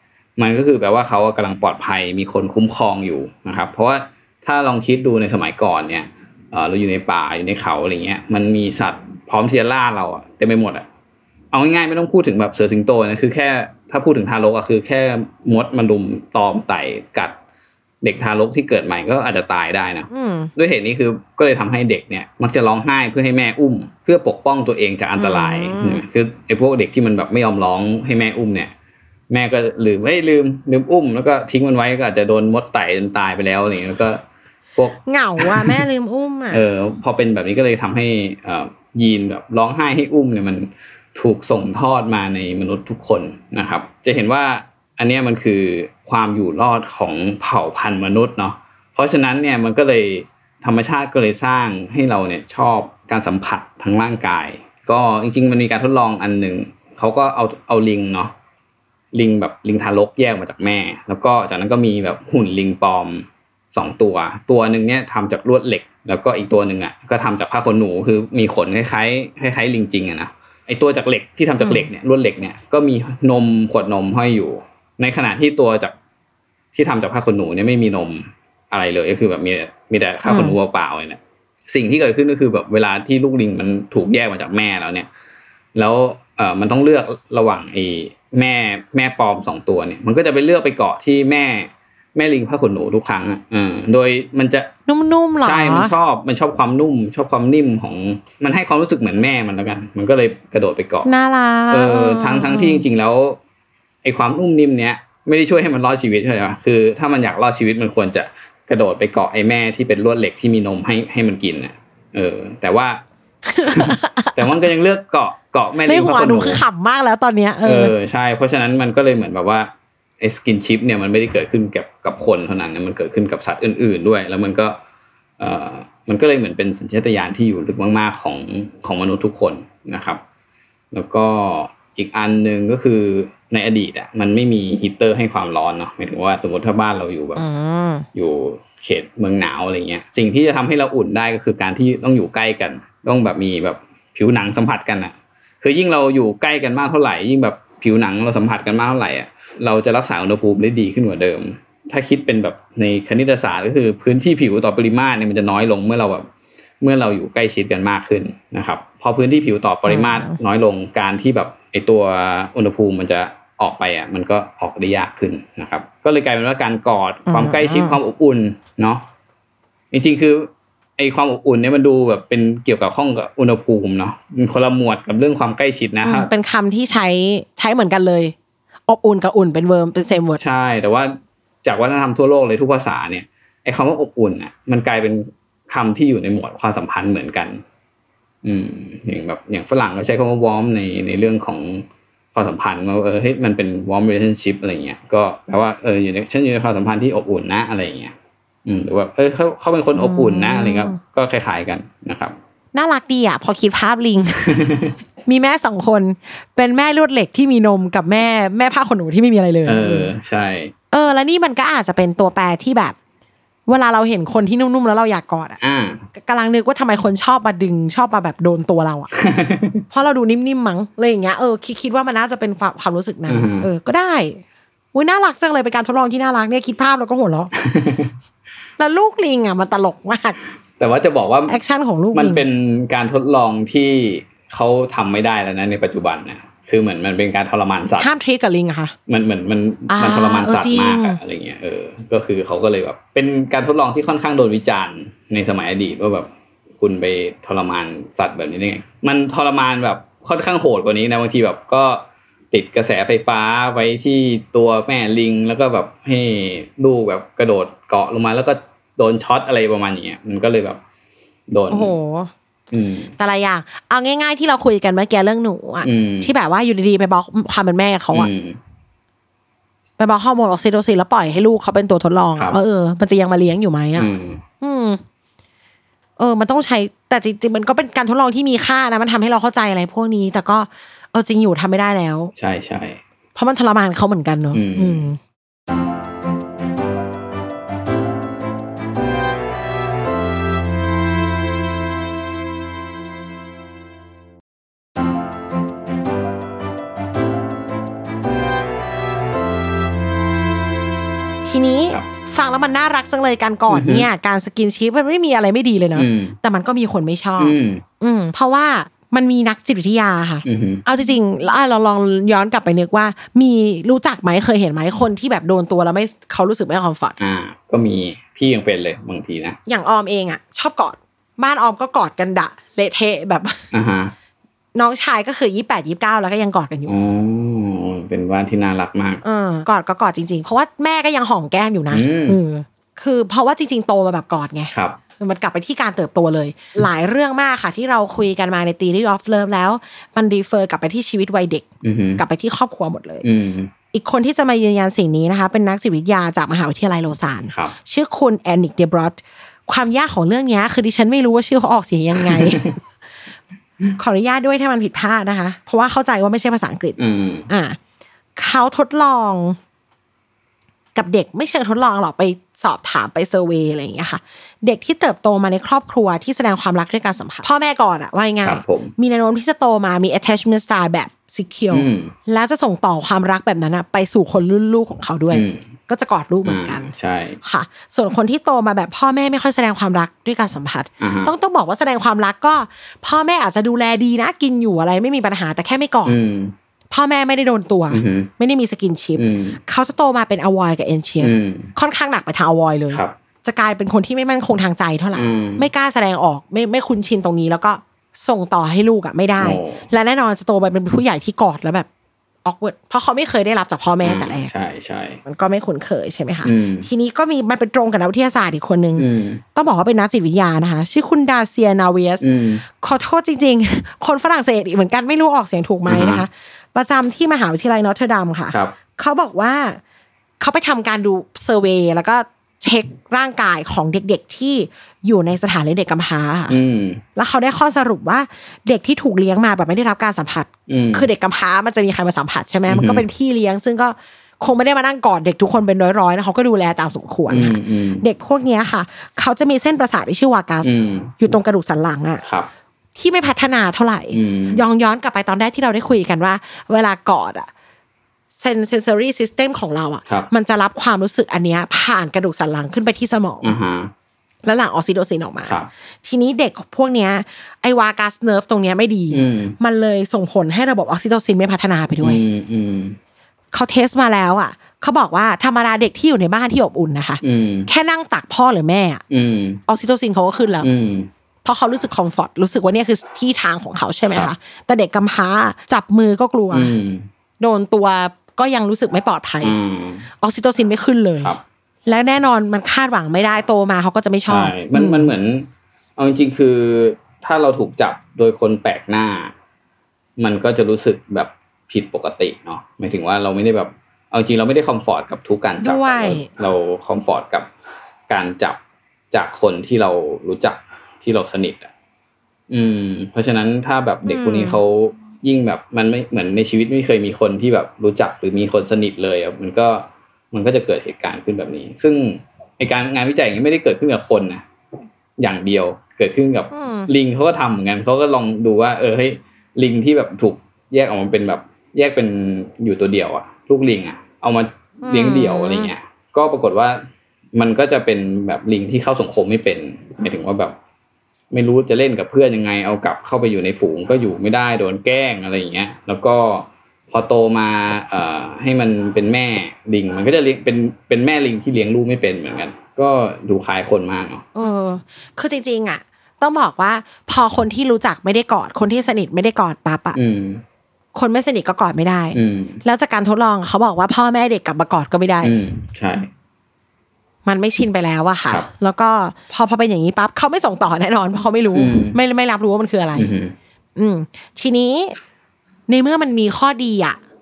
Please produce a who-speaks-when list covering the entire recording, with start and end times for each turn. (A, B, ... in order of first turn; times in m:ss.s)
0:00.4-0:10.9 A
0:11.5-0:17.4 A
0:18.0-0:28.7 A
0:20.1-0:20.5 B
0:25.2-0:26.0 B
0:29.3-0:34.2 A
0:34.8-0:35.8 A
0:35.1-0:36.6 B
0:36.5-0:58.3 A
0:59.1-1:15.9 A
1:11.6-1:11.9 B
1:16.7-1:25.1 A
1:20.2-1:20.6 B
1:25.8-1:34.7 A
1:34.9-1:35.9 B
1:35.4-1:41.1 A
1:41.0-1:42.8 B
1:41.7-1:43.4 A
1:44.0-1:53.0 A
1:53.5-1:54.5 B
1:53.6-1:56.6 A
1:55.8-1:58.0 B
1:57.6-2:04.8 A
2:05.4-2:10.2 A
2:10.9-2:17.4 A
2:17.4-2:18.1 B
2:18.1-2:36.3 A
2:36.8-2:49.0 A
2:39.9-2:40.4 B
2:47.3-2:48.0 B
2:49.9-2:56.3 A
2:56.0-2:58.4 B
2:58.9-3:00.4 B
3:00.4-3:01.1 A
3:01.6-3:07.6 A
3:08.4-3:18.1 A
3:18.7-3:22.4 A
3:19.9-3:21.0 B
3:22.7-3:24.6 B
3:24.6-3:25.0 A
3:25.2-3:30.1 B
3:29.6-3:30.7 A
3:30.9-3:33.0 B
3:33.7-3:35.6 B
3:35.6-3:36.0 A
3:36.2-3:39.1 B
3:39.2-3:39.8 A
3:39.9-3:44.4 B
3:43.3-3:43.7 A
3:44.9-3:47.5 B
3:47.6-3:48.1 A
3:48.8-3:50.4 B
3:50.8-3:51.6 A
3:51.5-3:52.5 B
3:52.1-3:58.1 A
3:58.0-3:59.0 B
3:59.1-4:06.3 A
3:59.9-4:01.2 B
4:06.8-4:20.8 A
4:21.5-4:22.0 A
4:21.7-4:22.3 B
4:22.7-4:23.1 A
4:23.2-4:28.3 B
4:25.8-4:26.3 A
4:28.1-4:28.6 A
4:30.0-4:35.0 B
4:34.0-4:34.4 A
4:36.2-4:42.3 B
4:42.4-4:43.0 A
4:43.4-4:45.2 B
4:44.5-4:45.1 A
5:01.4-5:17.2 B
5:03.7-5:04.1 A
5:06.0-5:06.4 A
5:07.4-5:07.8 A
5:10.4-5:10.8 A
5:17.2-5:19.6 A
5:19.7-5:23.6 B
5:23.7-5:24.1 A
5:24.8-5:27.0 B
5:26.9-5:29.2 A
5:29.2-5:41.7 B
5:31.9-5:32.4 A
5:34.7-5:35.0 A
5:41.8-5:42.2 A
5:42.2-5:43.3 B
5:43.2-5:43.7 A
5:43.9-5:52.8 B
5:47.5-5:47.8 A
5:53.9-5:57.8 B
5:57.0-5:57.5 A
5:58.4-5:59.6 B
6:01.0-6:16.9 B
6:08.4-6:08.9 A
6:11.7-6:12.1 A
6:15.3-6:15.7 A
6:16.4-6:17.4 A
6:17.4-6:26.2 B
6:21.0-6:21.3 A
6:26.0-6:26.6 A
6:26.9-6:41.9 B
6:27.9-6:28.3 A
6:29.2-6:29.6 A
6:31.2-6:31.7 A
6:35.1-6:35.7 A
6:39.4-6:39.9 A
6:42.4-6:44.5 B
6:44.0-6:45.2 A
6:45.2-6:59.8 B
6:46.4-6:46.9 A
6:49.0-6:49.4 A
6:52.2-6:52.6 A
6:55.9-6:56.3 A
6:58.5-6:58.8 A
7:00.4-7:06.6 B
7:06.5-7:07.0 A
7:07.2-7:22.2 B
7:10.7-7:11.1 A
7:12.7-7:13.1 A
7:17.3-7:18.0 A
7:20.6-7:21.2 A
7:22.2-7:22.5 A
7:23.0-7:27.5 B
7:24.1-7:24.6 A
7:28.4-7:33.6 B
7:33.4-7:33.9 A
7:34.4-7:42.2 B
7:39.1-7:39.6 A
7:42.0-7:43.0 A
7:43.5-7:49.0 B
7:47.2-7:47.7 A
7:49.1-7:49.6 A
7:49.7-7:50.7 B
7:50.6-7:51.1 A
7:51.4-7:56.8 B
7:56.5-7:57.1 A
7:57.4-7:59.6 B
7:59.4-8:00.1 A
8:00.2-8:05.1 B
8:04.3-8:09.3 A
8:10.2-8:17.5 A
8:15.6-8:16.3 B
8:18.1-8:18.6 A
8:19.1-8:21.7 A
8:22.5-8:34.4 A
8:24.0-8:24.6 B
8:35.2-8:50.5 A
8:36.5-8:36.9 B
8:44.8-8:45.7 B
8:51.3-9:04.3 A
9:04.4-9:10.0 B
9:09.9-9:10.4 A
9:10.9-9:15.4 B
9:12.1-9:12.6 A
9:15.2-9:16.1 A
9:17.2-9:23.1 B
9:21.5-9:22.0 A
9:23.0-9:23.4 A
9:23.8-9:25.0 B
9:25.7-9:27.0 B